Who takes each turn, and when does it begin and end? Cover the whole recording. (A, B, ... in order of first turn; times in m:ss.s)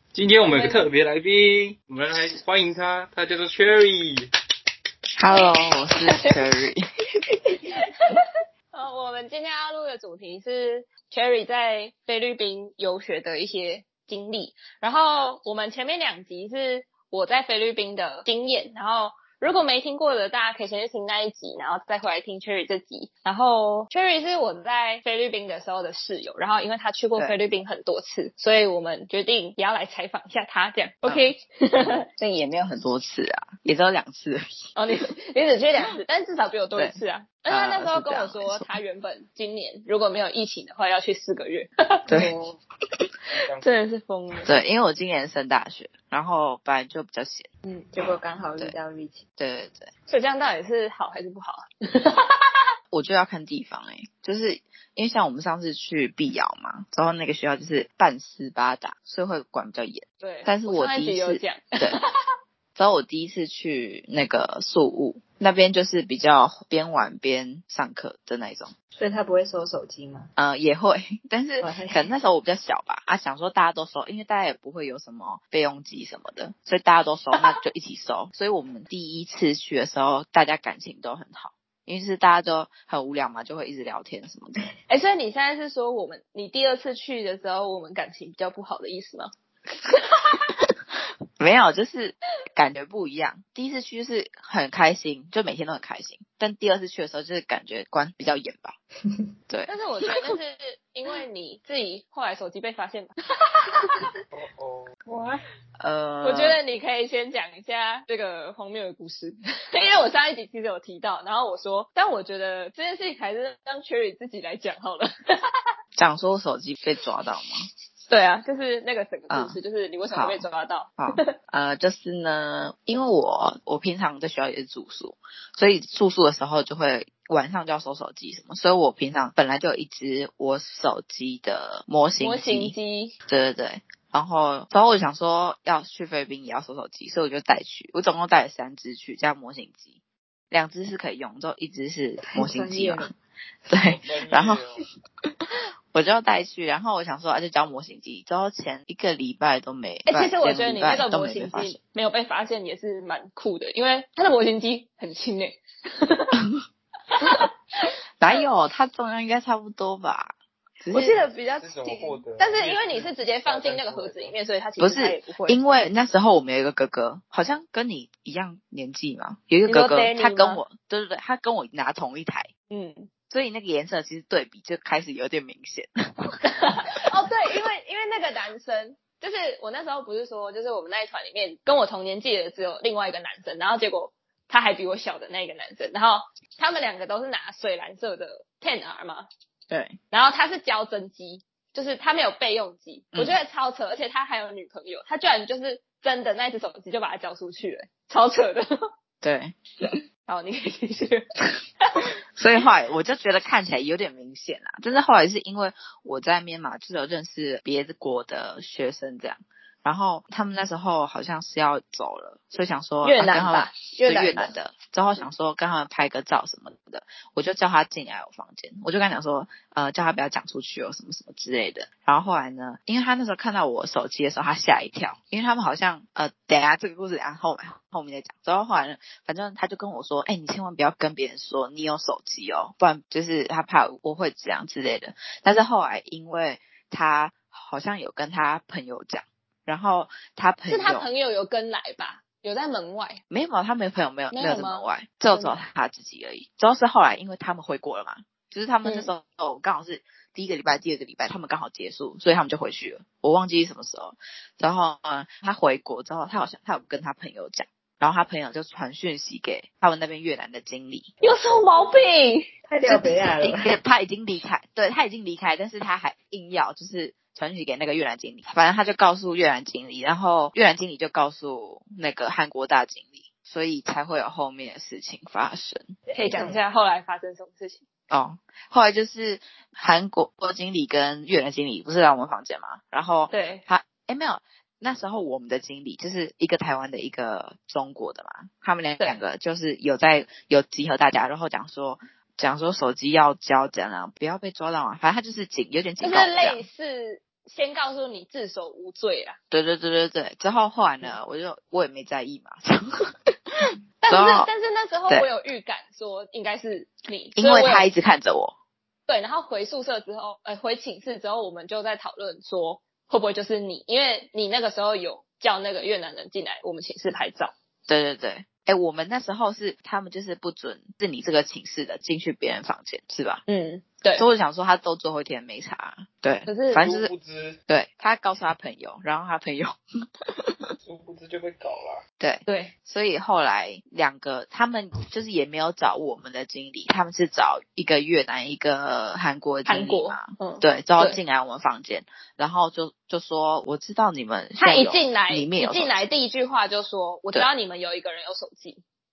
0:00.1-0:04.3 A
0:00.4-0:00.9 B
0:05.2-0:06.8 C
0:06.0-0:06.4 B
0:08.0-0:32.0 B
0:31.9-0:34.4 C
0:34.8-0:42.0 B
0:37.5-0:38.7 C
0:42.1-0:42.3 C
0:42.1-0:42.6 D
0:43.3-0:43.8 A
0:43.6-0:44.5 B
0:44.4-0:47.5 C
0:47.6-0:49.2 D
0:49.4-0:49.9 C
0:50.1-0:52.5 B
0:52.9-1:02.0 C
1:00.2-1:02.0 B
1:02.8-1:08.7 C
1:08.9-1:10.3 D
1:10.4-1:24.7 C
1:11.6-1:12.1 D
1:24.9-1:29.3 B
1:29.9-1:30.5 B
1:31.4-1:38.8 C
1:39.7-1:43.9 B
1:44.3-1:44.9 A
1:45.1-1:45.4 D
1:45.8-1:46.6 C
1:46.2-1:55.1 B
1:56.0-1:57.6 C
1:58.1-2:01.3 B
1:59.3-1:59.6 C
2:00.1-2:00.5 C
2:01.0-2:12.7 C
2:12.2-2:13.1 B
2:13.3-2:19.9 C
2:20.5-2:23.1 C
2:22.2-2:23.1 D
2:23.7-2:24.6 C
2:23.8-2:24.8 A
2:25.9-2:31.8 C
2:30.1-2:36.4 B
2:37.1-2:37.5 B
2:38.2-2:41.2 C
2:40.9-2:45.7 B
2:41.6-2:44.3 A
2:44.8-2:52.5 C
2:49.7-2:50.6 B
2:52.7-2:53.1 B
2:53.3-2:57.0 C
2:56.4-3:09.3 B
3:09.7-3:10.0 C
3:10.1-3:18.9 B
3:19.2-3:19.6 C
3:20.2-3:21.3 B
3:22.4-4:01.1 C
3:33.0-3:34.5 B
4:00.7-4:03.2 B
4:03.3-4:21.1 C
4:04.3-4:05.6 B
4:08.8-4:09.1 B
4:21.2-4:22.5 B
4:22.7-4:23.7 D
4:22.9-4:36.0 C
4:36.1-4:36.6 D
4:36.1-4:37.8 B
4:38.1-4:56.6 C
4:43.3-4:43.6 B
4:56.0-4:59.4 B
4:59.5-5:04.5 C
5:04.0-5:07.9 B
5:07.4-5:08.5 C
5:09.1-5:17.5 B
5:17.9-5:23.4 C
5:23.5-5:24.3 B
5:24.2-5:27.1 C
5:26.5-5:27.0 B
5:26.8-5:27.6 A
5:27.7-5:29.7 C
5:30.4-5:30.7 C
5:30.8-5:32.0 A
5:32.2-5:46.0 C
5:32.5-5:32.7 B
5:39.7-5:41.2 B
5:44.6-5:48.8 B